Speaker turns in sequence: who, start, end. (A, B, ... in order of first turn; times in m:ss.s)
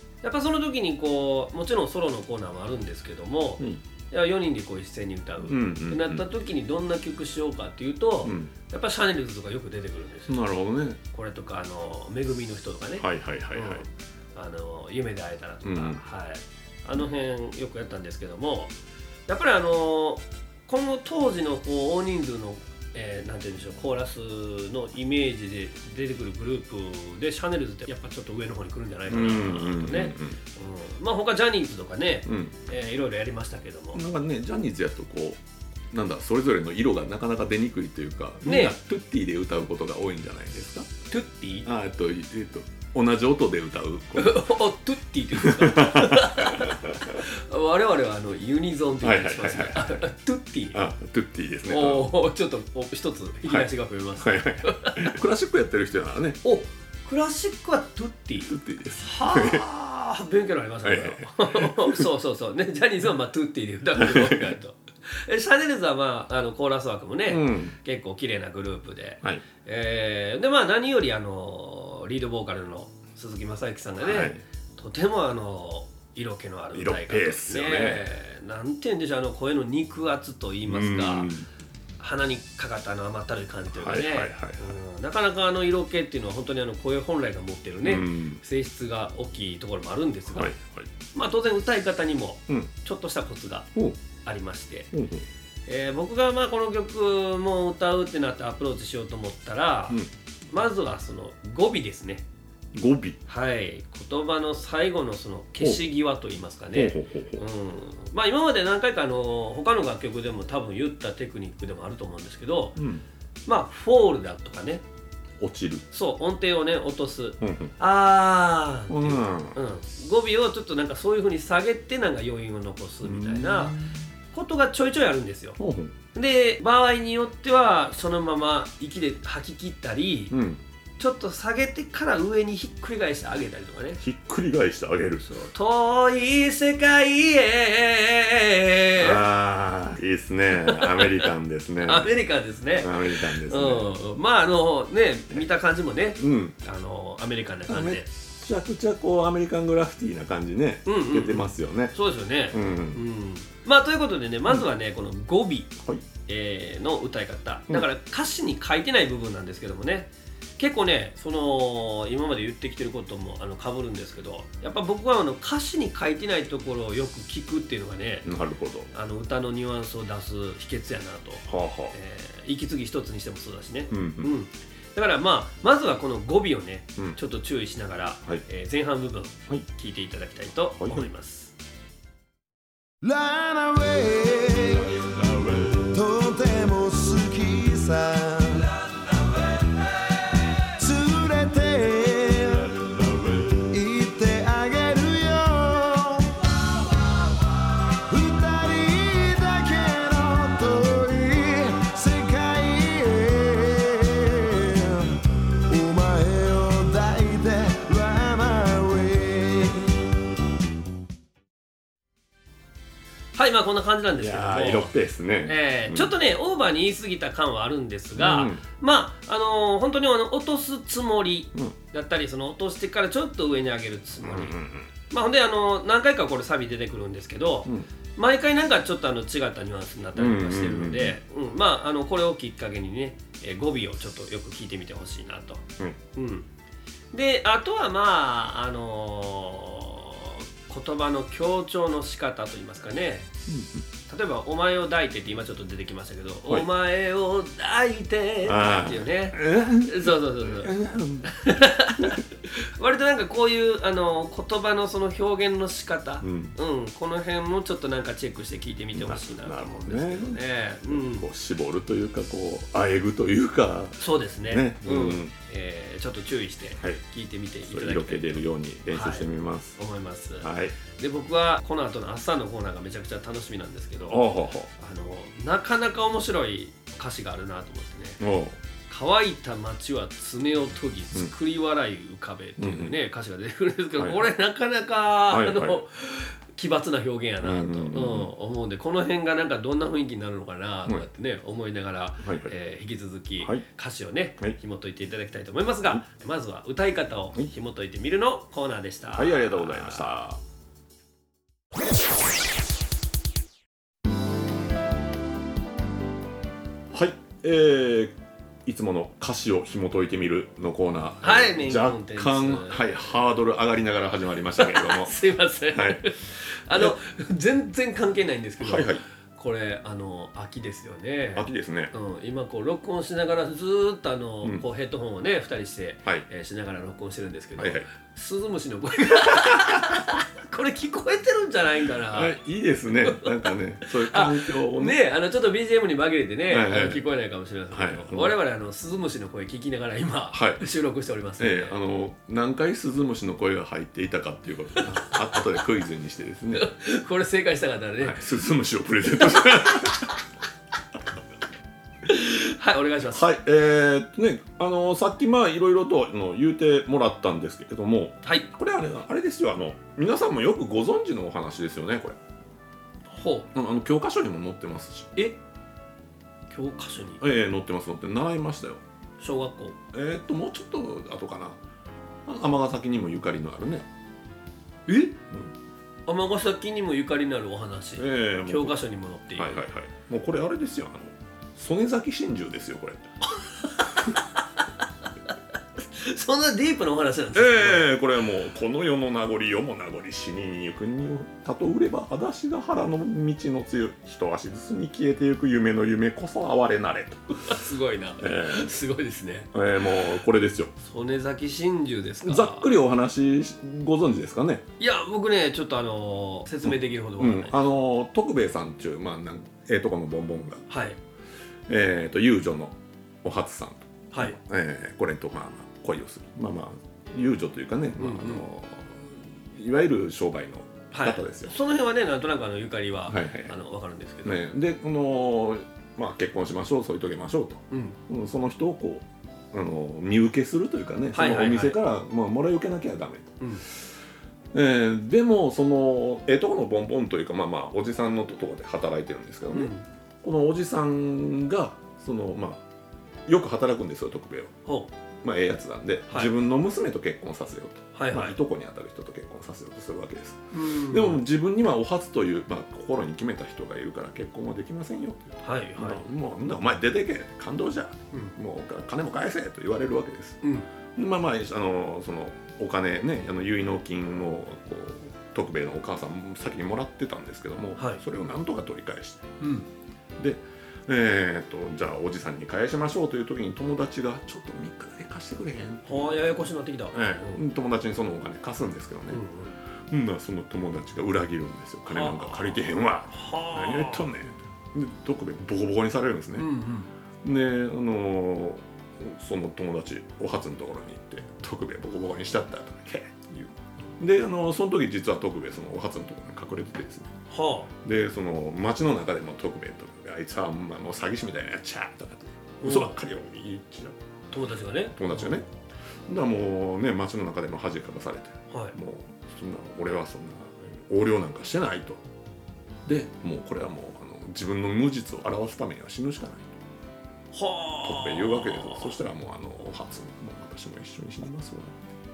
0:00.2-0:10.4 A
0:05.5-0:06.2 B
0:08.2-0:08.5 B
0:10.3-0:11.0 B
0:11.1-0:18.7 A
0:13.0-0:13.8 B
0:15.6-0:16.0 B
0:19.3-0:34.0 A
0:29.1-0:30.4 B
0:32.3-0:32.5 B
0:33.9-0:40.9 B
0:38.4-0:38.7 A
0:41.1-0:41.7 A
0:41.6-0:44.6 B
0:44.2-0:50.8 A
0:45.3-0:47.2 B
0:49.0-0:50.0 B
0:50.7-0:52.1 B
0:51.7-0:55.1 A
0:53.4-0:56.4 B
0:56.4-1:21.3 A
0:58.5-0:59.6 B
1:00.8-1:02.0 B
1:04.0-1:04.5 B
1:07.3-1:07.7 B
1:14.0-1:14.4 B
1:16.7-1:18.0 B
1:20.7-1:21.4 B
1:22.0-1:30.5 A
1:23.7-1:24.7 B
1:27.8-1:28.4 B
1:30.3-1:30.9 B
1:31.1-1:34.9 A
1:34.9-1:35.2 B
1:35.6-1:42.2 A
1:42.7-1:43.2 B
1:43.3-1:52.8 A
1:46.7-1:47.4 B
1:52.8-1:53.0 B
1:53.4-1:54.8 A
1:55.4-1:55.8 B
1:55.9-2:03.7 A
1:57.4-1:57.7 B
1:58.9-1:59.6 B
2:03.0-2:04.0 B
2:04.3-2:05.6 A
2:05.6-2:05.9 B
2:06.1-2:10.4 A
2:10.3-2:10.6 B
2:11.0-2:14.0 A
2:14.0-2:15.3 B
2:15.2-2:19.2 A
2:19.0-2:22.1 B
2:20.6-2:21.2 A
2:21.8-2:28.1 A
2:22.7-2:23.9 B
2:26.2-2:26.6 B
2:27.7-2:31.9 B
2:30.8-2:35.7 A
2:32.5-2:33.0 B
2:36.3-2:48.3 A
2:48.2-2:48.9 B
2:48.9-3:01.5 A
2:51.5-2:51.9 B
2:53.9-2:54.3 B
3:00.8-3:01.1 B
3:03.0-3:16.5 C
3:18.1-3:29.9 C
3:33.3-3:34.9 A
3:34.2-3:36.1 B
3:35.4-3:44.6 A
3:38.2-3:38.6 B
3:44.2-3:44.9 B
3:45.1-3:56.5 A
3:50.2-3:51.2 B
3:57.1-4:03.3 A
4:03.5-4:03.8 B
4:04.1-4:21.3 A
4:08.4-4:11.3 B
4:16.2-4:16.6 B
4:18.9-4:25.3 B
4:24.0-4:34.2 A
4:27.6-4:29.8 B
4:30.4-4:30.8 B
4:34.1-4:34.7 B
4:34.8-4:38.2 A
4:38.2-4:38.6 B
4:38.9-5:00.2 A
4:42.6-4:42.9 B
4:44.0-4:44.3 B
4:45.3-4:45.8 B
4:47.4-4:48.3 B
4:52.2-4:52.5 B
4:59.1-5:00.4 B
5:06.9-5:15.2 B
5:11.2-5:12.9 A
5:14.6-5:32.4 A
5:15.7-5:16.0 B
5:16.7-5:17.0 B
5:18.6-5:19.0 B
5:21.3-5:21.9 B
5:27.6-5:27.9 B
5:32.1-5:35.0 B
5:33.9-5:41.8 A
5:36.5-5:37.0 B
5:37.7-5:38.3 B
5:40.3-5:40.6 B
5:41.4-5:46.7 B
5:44.8-5:45.2 A
5:46.5-5:48.2 A
5:48.0-5:50.1 B
5:52.0-5:53.2 A
5:53.1-6:02.2 B
6:03.1-6:03.5 A
6:03.5-6:05.1 B
6:06.5-6:07.2 A
6:07.2-6:08.8 B
6:09.2-6:09.8 A
6:09.9-6:11.6 B
6:12.2-6:13.9 B
6:14.9-6:15.2 A
6:16.1-6:19.6 A
6:18.0-6:18.8 B
6:19.4-6:23.0 B
6:23.4-6:24.4 A
6:25.9-6:27.9 A
6:27.3-6:37.6 B
6:37.4-6:39.5 A
6:38.2-6:38.7 B
6:39.5-6:40.7 B
6:40.8-6:42.7 A
6:42.2-6:44.6 B
6:44.8-6:47.6 A
6:46.6-6:50.6 B
6:50.7-6:51.0 A
6:51.7-7:01.5 B
6:54.1-6:54.4 A
6:58.0-6:58.4 A
7:00.9-7:04.4 A
7:03.1-7:03.5 B
7:04.2-7:13.4 B
7:07.7-7:08.0 A
7:11.1-7:11.8 A
7:14.5-7:19.7 B
7:19.5-7:19.8 A
7:20.2-7:22.6 B
7:23.2-7:24.5 B
7:25.2-7:40.4 B
7:27.9-7:28.4 A
7:30.5-7:31.2 A
7:35.4-7:36.0 A
7:40.4-7:40.7 A
7:41.0-7:49.3 B
7:49.4-7:49.7 A
7:50.2-7:56.4 B
7:55.8-7:57.4 A
7:56.9-7:59.2 B
7:59.1-7:59.6 A
7:59.9-8:06.5 B
8:01.9-8:04.0 A
8:06.4-8:06.9 A
8:07.2-8:17.1 B
8:17.3-8:17.7 A
8:17.8-8:24.0 B
8:22.6-8:22.9 A
8:24.3-8:25.4 A
8:24.9-8:25.5 B
8:26.1-8:32.0 B
8:28.5-8:28.8 A
8:32.8-8:36.5 B
8:37.3-8:38.9 A
8:37.8-8:41.8 B